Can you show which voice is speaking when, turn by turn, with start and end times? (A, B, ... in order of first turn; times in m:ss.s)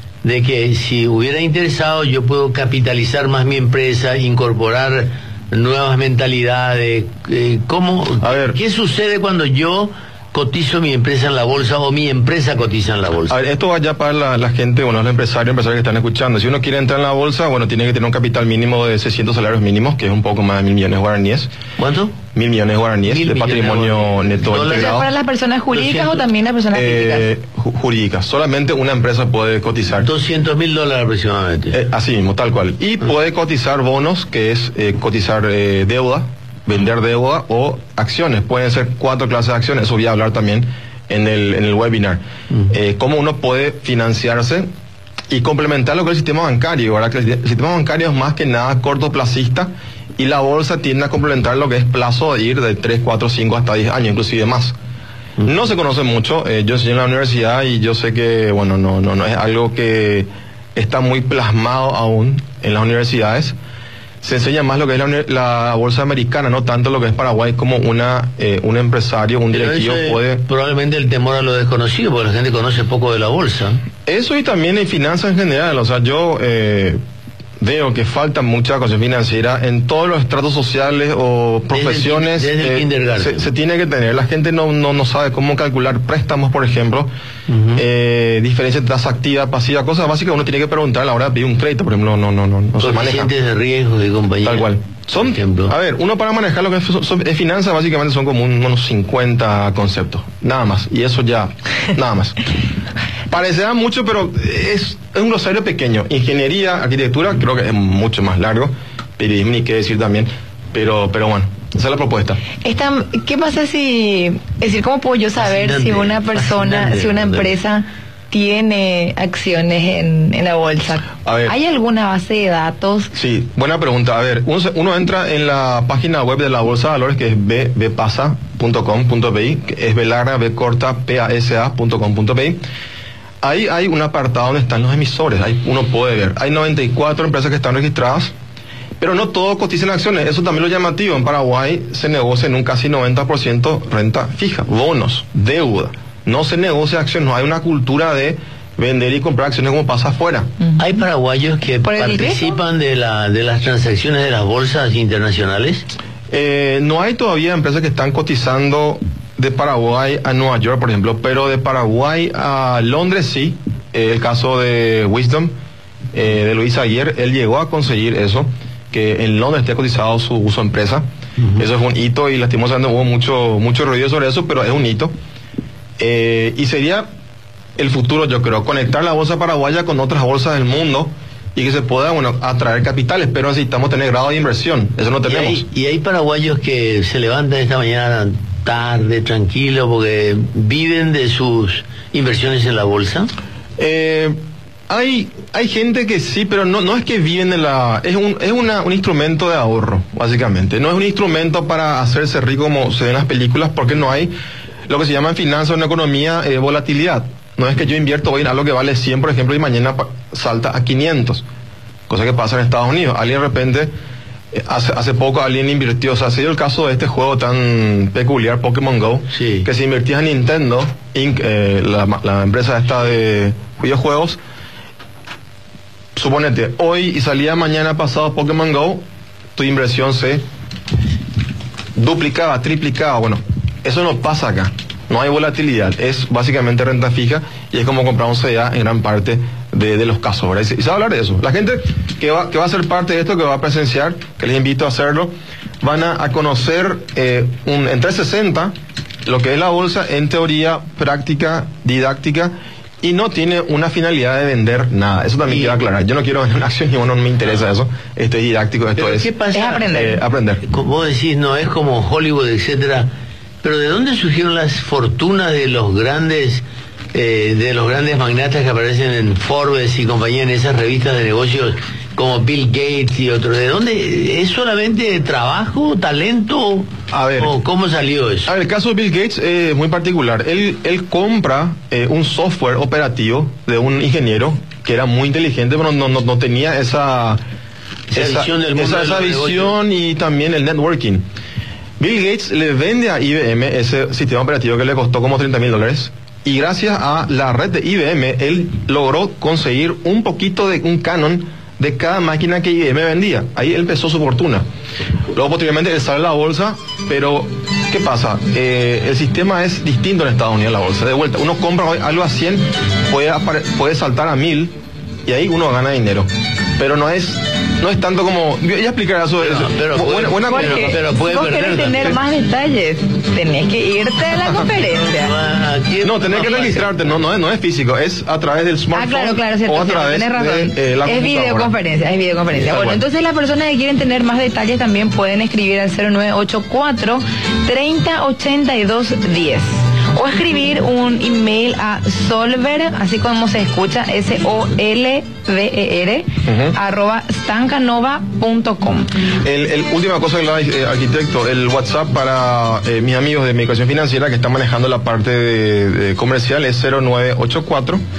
0:00.2-0:13.4 A
0:08.2-0:08.6 B
0:13.3-0:21.5 B
0:21.8-0:22.2 A
0:22.3-0:25.1 B
0:23.0-0:25.0 A
0:24.6-0:27.2 C
0:25.7-0:26.2 A
0:26.7-0:30.1 B
0:30.0-0:31.8 A
0:31.7-0:44.7 B
0:45.3-0:54.7 B
0:55.4-1:03.5 B
1:04.2-1:10.4 B
1:09.5-1:13.8 A
1:14.0-1:17.0 B
1:17.6-1:27.1 B
1:21.7-1:23.5 A
1:27.5-1:27.8 A
1:27.8-1:33.3 B
1:32.8-1:35.7 A
1:34.4-1:42.4 B
1:43.3-1:52.4 B
1:52.6-2:03.1 C
1:55.4-1:57.5 A
2:01.2-2:01.5 B
2:03.1-2:12.6 B
2:13.4-2:18.3 B
2:19.0-2:30.5 B
2:30.8-2:35.8 A
2:31.8-2:32.5 C
2:36.3-2:45.5 B
2:46.1-2:51.0 B
2:51.4-2:51.6 A
2:51.6-2:55.1 B
2:56.0-2:57.0 B
2:57.8-3:05.6 B
3:05.2-3:13.3 A
3:13.8-3:14.4 B
3:14.9-3:24.3 B
3:24.9-3:31.4 B
3:32.1-3:33.9 B
3:34.5-3:44.4 B
3:39.3-3:39.7 A
3:46.2-3:49.0 B
3:49.6-3:50.4 B
3:52.0-4:08.7 B
4:09.2-4:19.3 B
4:15.4-4:15.8 A
4:19.0-4:19.8 A
4:19.5-4:20.2 C
4:19.8-4:20.6 B
4:20.6-4:23.1 A
4:23.6-4:38.5 A
4:37.1-4:37.5 B
4:38.5-4:47.4 B
4:48.1-4:49.8 A
4:48.2-4:51.2 B
4:52.0-5:04.6 B
5:05.3-5:14.7 B
5:15.2-5:16.3 B
5:16.8-5:21.0 B
5:19.4-5:22.2 A
5:20.5-5:25.3 C
5:24.8-5:27.1 A
5:26.0-5:31.8 B
5:28.9-5:49.1 C
5:32.5-5:33.0 B
5:46.4-5:46.7 B
5:49.4-5:58.0 B